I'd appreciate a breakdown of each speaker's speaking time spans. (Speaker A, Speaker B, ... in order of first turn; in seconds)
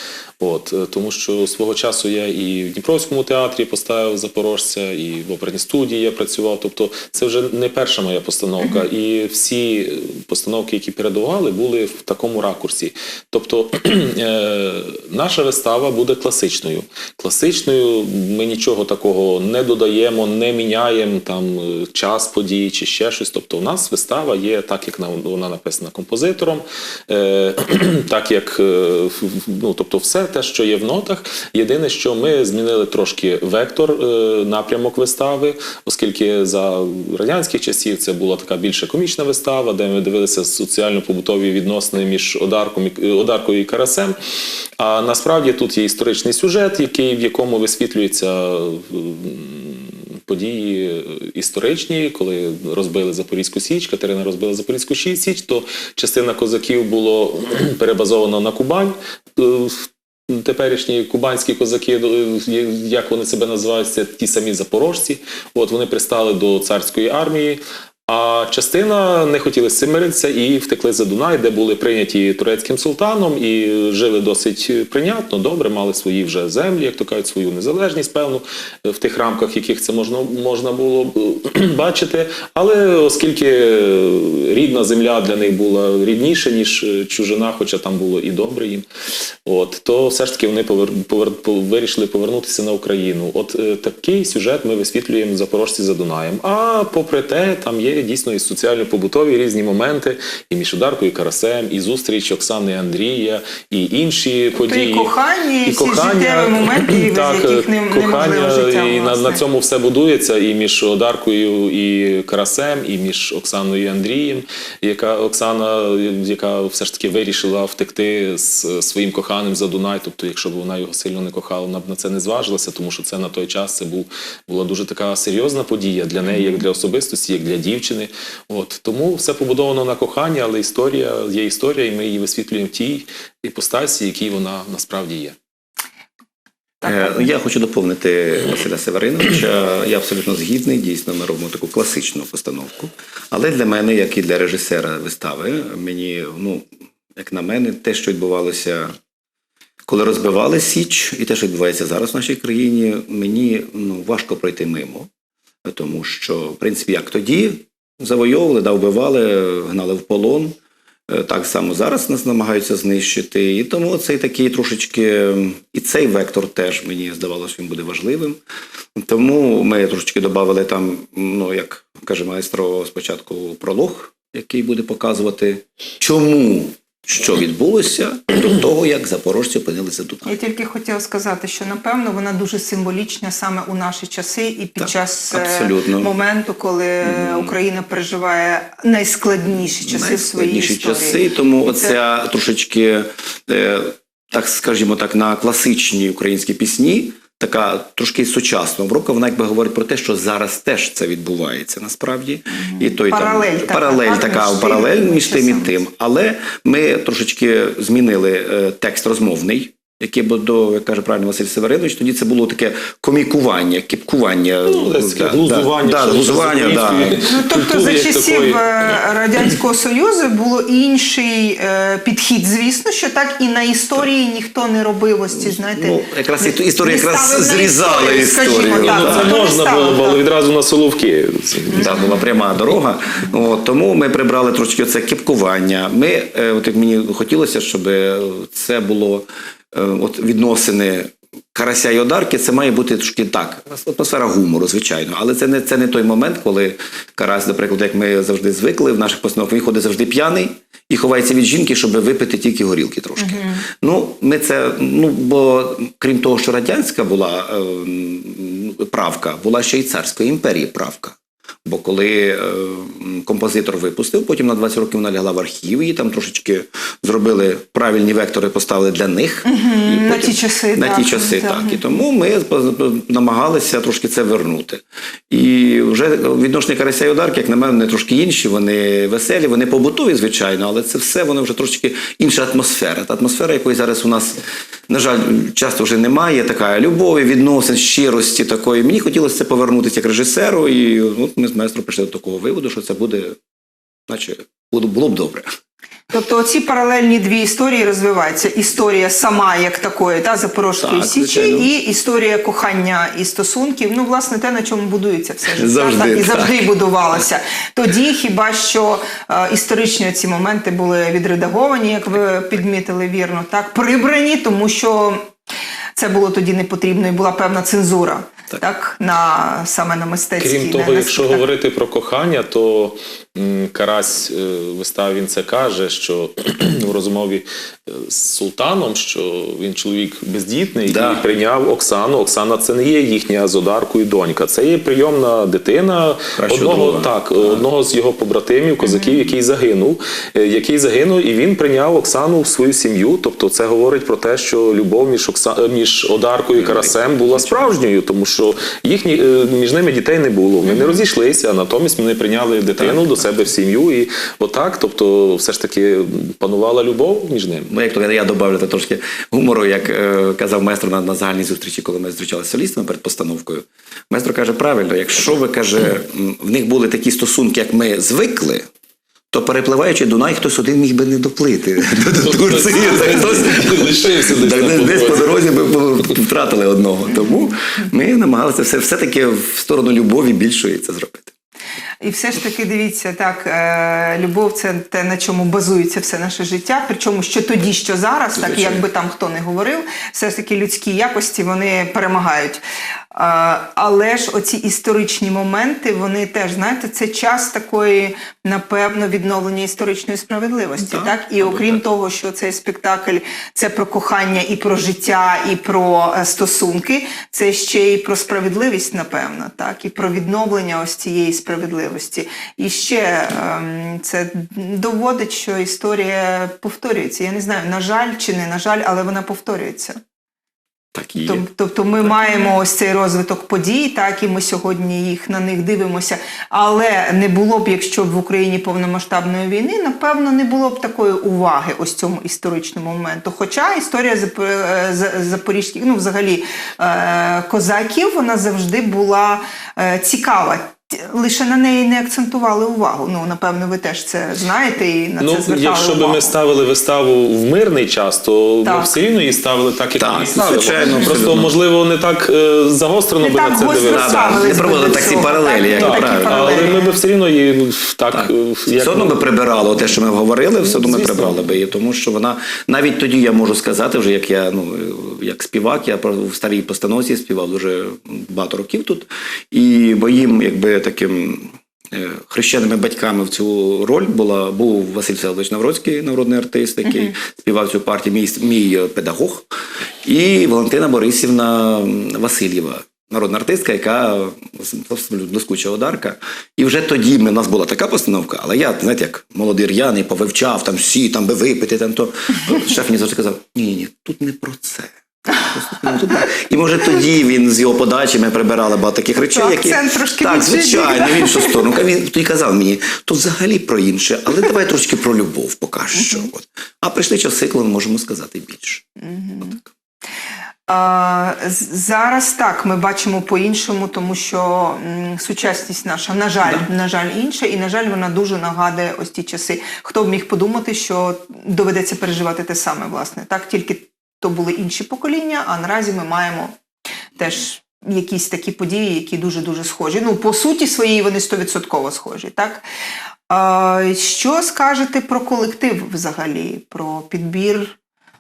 Speaker A: 0.4-44.2, 44.8-88.9, 89.5-105.1, 105.7-135.4, 214.7-219.0, 228.7-232.0, 320.4-357.7, 372.1-375.4, 445.2-454.5, 455.7-459.2, 460.6-461.5
Speaker B: 8.6-8.9, 104.6-109.4, 126.3-126.6, 136.8-137.3, 180.3-191.9, 202.5-205.8, 217.2-230.2, 231.7-232.2, 253.2-253.6, 269.4-271.8, 296.1-315.3, 316.0-321.4, 338.8-339.3, 350.6-351.0, 377.1-377.5, 382.0-392.6, 393.1-420.0, 421.2-446.4, 448.6-448.9, 450.9-451.2, 453.2-457.0, 476.9-477.1, 495.4-496.3, 499.2-501.6, 505.9-506.3, 509.0-509.6, 510.7-526.5, 527.2-532.6, 533.3-537.8
Speaker C: 136.8-148.9, 149.9-155.1, 155.7-160.6, 161.1-168.4, 169.0-180.4, 184.8-186.1, 187.0-187.6, 189.8-217.2, 225.3-229.4, 231.7-293.4, 294.1-295.5, 300.8-301.7, 305.6-306.6, 330.9-331.2, 336.4-337.7, 346.6-347.8, 352.8-353.2, 357.7-368.7, 369.3-381.3, 388.4-388.8, 400.8-401.8, 420.9-421.5, 449.9-451.5, 453.8-456.7, 458.1-479.5, 480.0-508.9